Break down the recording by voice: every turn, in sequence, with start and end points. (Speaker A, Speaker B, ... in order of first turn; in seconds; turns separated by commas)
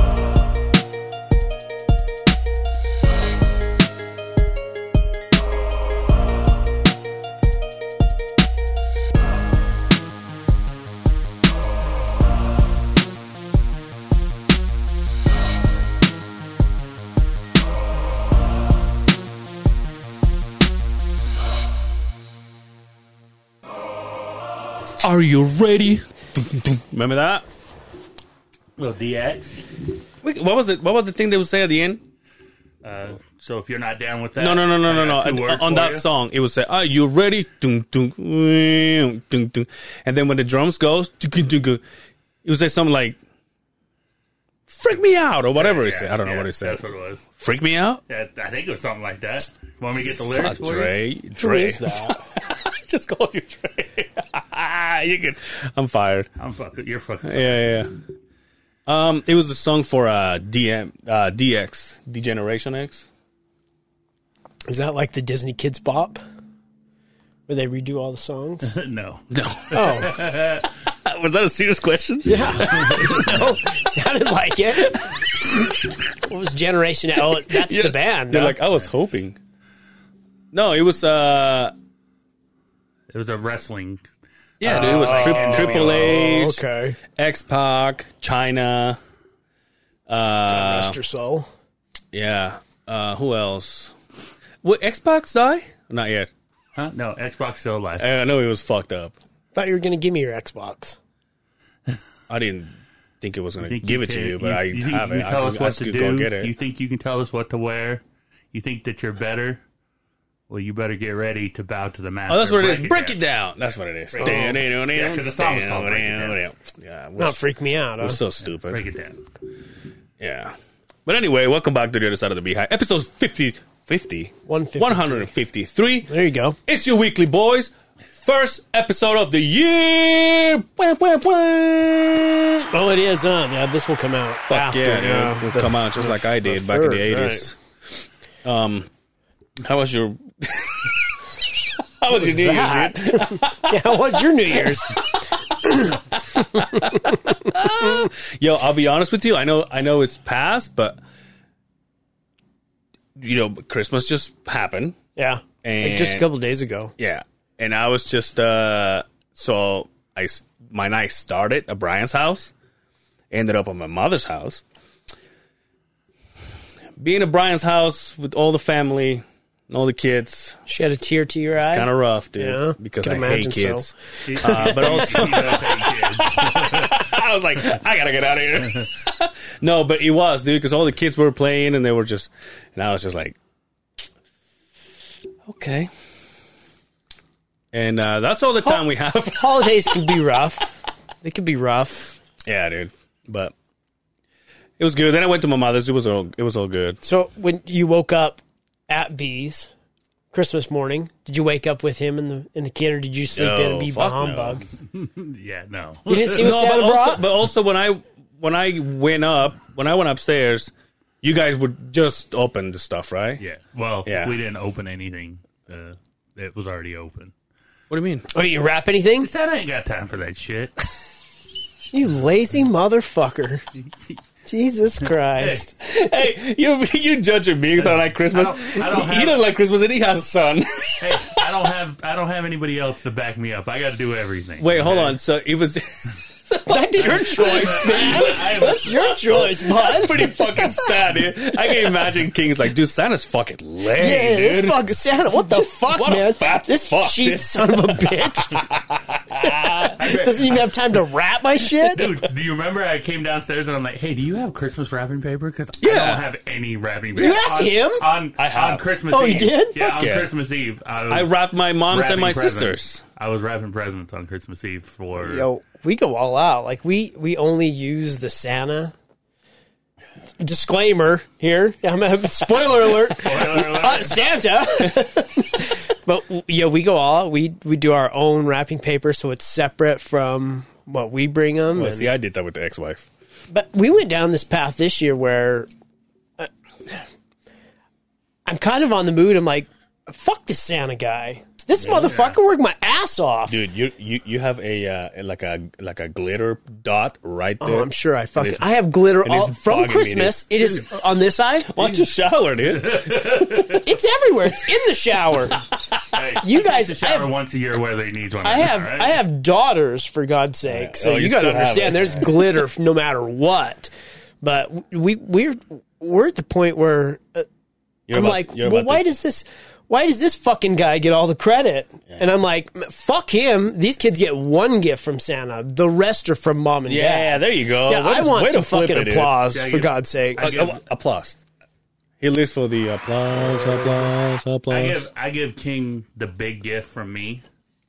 Speaker A: 25.0-27.4, Speaker B: 28.8-29.6, Speaker A: 30.2-32.0, Speaker B: 32.8-36.0, Speaker A: 34.4-41.8, Speaker A: 42.4-43.2, Speaker A: 44.7-46.8, Speaker B: 45.5-47.2, Speaker A: 47.4-48.0, Speaker B: 48.1-50.9, Speaker A: 50.4-56.3, Speaker C: 51.3-52.2, Speaker B: 56.4-57.8, Speaker A: 57.2-57.9, Speaker A: 58.9-63.1, Speaker C: 64.7-66.2, Speaker C: 67.5-68.7, Speaker B: 68.6-70.7, Speaker A: 69.3-73.1, Speaker C: 69.7-70.2, Speaker C: 72.2-78.6, Speaker B: 72.6-73.6, Speaker A: 77.4-79.4, Speaker A: 80.5-81.7, Speaker B: 83.1-84.1, Speaker B: 84.6-86.2, Speaker A: 84.6-86.6, Speaker C: 84.6-87.0, Speaker A: 87.1-89.0, Speaker A: 90.1-91.0, Speaker C: 90.5-91.5, Speaker A: 92.1-93.9, Speaker A: 94.6-96.3, Speaker B: 96.8-98.0, Speaker A: 98.0-99.1, Speaker C: 99.5-101.0, Speaker A: 102.3-106.5, Speaker B: 103.6-109.6, Speaker B: 110.5-113.2, Speaker A: 112.3-117.4, Speaker B: 114.1-116.4, Speaker C: 114.2-114.6, Speaker C: 117.2-118.2, Speaker A: 118.0-118.8, Speaker B: 118.6-119.2, Speaker A: 120.2-120.5, Speaker A: 121.0-126.1, Speaker C: 124.5-125.3, Speaker C: 126.1-126.6, Speaker A: 126.7-132.7, Speaker C: 132.7-137.5, Speaker A: 134.5-138.9, Speaker A: 139.6-141.3, Speaker A: 141.8-143.9, Speaker C: 142.1-147.5, Speaker A: 144.5-144.9, Speaker A: 146.2-151.0, Speaker A: 153.2-154.9, Speaker C: 155.2-156.9, Speaker A: 155.6-156.2, Speaker A: 157.0-162.5, Speaker A: 163.3-164.6, Speaker A: 167.0-170.8, Speaker C: 170.7-175.3, Speaker A: 171.6-183.4, Speaker B: 174.2-177.0, Speaker A: 185.4-185.9, Speaker A: 187.7-189.9, Speaker C: 188.6-192.2, Speaker A: 192.4-193.5, Speaker A: 194.8-197.0, Speaker C: 197.0-199.7, Speaker C: 200.3-204.7, Speaker A: 203.3-204.6, Speaker B: 204.9-206.5, Speaker C: 206.1-207.2, Speaker A: 206.2-213.4, Speaker B: 213.4-217.3, Speaker A: 214.0-214.3, Speaker A: 217.9-218.3, Speaker C: 218.3-219.3, Speaker B: 219.2-220.9, Speaker C: 221.9-223.6, Speaker C: 224.4-225.7, Speaker B: 225.4-225.6, Speaker A: 225.8-231.5, Speaker B: 227.8-229.4, Speaker B: 231.0-235.2, Speaker A: 234.6-238.6, Speaker C: 236.7-240.6, Speaker B: 237.0-239.4, Speaker A: 239.3-244.8, Speaker C: 243.9-248.6, Speaker A: 245.3-249.9, Speaker B: 249.9-250.7, Speaker C: 250.0-252.1, Speaker B: 251.9-265.5, Speaker A: 255.8-256.2, Speaker C: 257.1-258.0, Speaker A: 258.4-258.8, Speaker C: 259.1-259.8, Speaker A: 259.8-260.3, Speaker A: 261.1-263.0, Speaker C: 265.2-268.9, Speaker C: 270.4-282.1, Speaker B: 272.9-274.2, Speaker A: 281.7-283.1, Speaker C: 283.5-285.7, Speaker C: 286.4-287.0, Speaker C: 288.4-293.6, Speaker B: 292.0-292.4, Speaker A: 293.5-300.6, Speaker C: 297.6-302.0, Speaker A: 301.7-303.9, Speaker B: 302.7-303.8, Speaker C: 303.8-305.6, Speaker B: 306.1-309.2, Speaker C: 306.4-307.3, Speaker C: 308.4-313.9, Speaker A: 310.7-312.6, Speaker C: 314.4-317.4, Speaker A: 318.1-319.1, Speaker C: 318.1-330.5, Speaker A: 326.9-329.4, Speaker B: 329.3-330.8, Speaker A: 330.4-331.4, Speaker A: 332.2-335.1, Speaker C: 333.4-334.1, Speaker B: 334.7-337.4